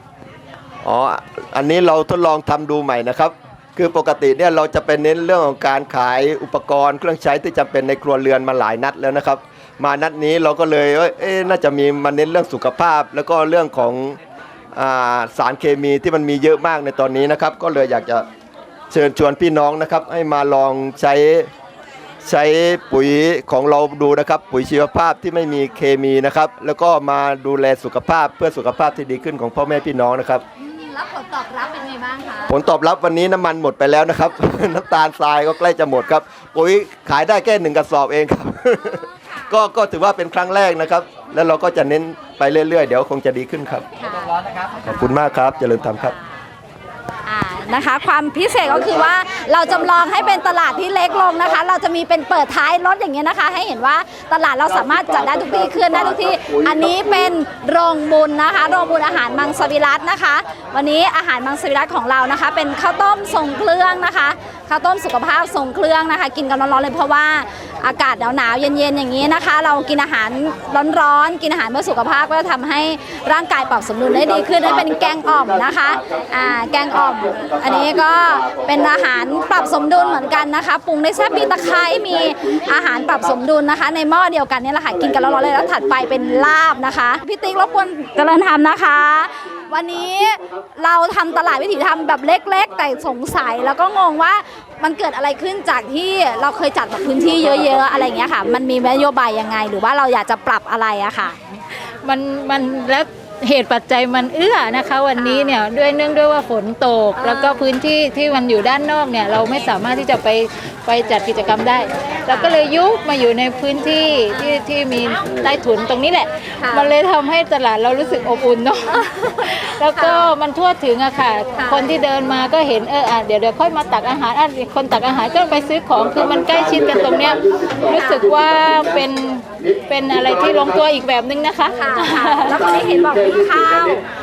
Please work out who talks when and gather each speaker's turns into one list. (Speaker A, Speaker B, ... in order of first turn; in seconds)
Speaker A: 0.8-14.2, 14.8-18.3, 18.9-21.5, 22.2-30.4, 32.5-43.9, 45.0-46.2, 54.7-57.2, 74.1-76.0, 76.9-80.3, 81.3-83.3, 85.2-86.3, 126.3-128.9, 132.7-133.7
Speaker B: 30.6-32.6, 44.0-44.3, 47.3-101.4, 105.2-105.5, 107.2-107.7, 112.3-112.7, 114.3-114.6, 116.6-116.9, 119.9-120.3, 121.5-121.9, 127.9-128.2, 131.7-134.0
Speaker C: 102.0-132.6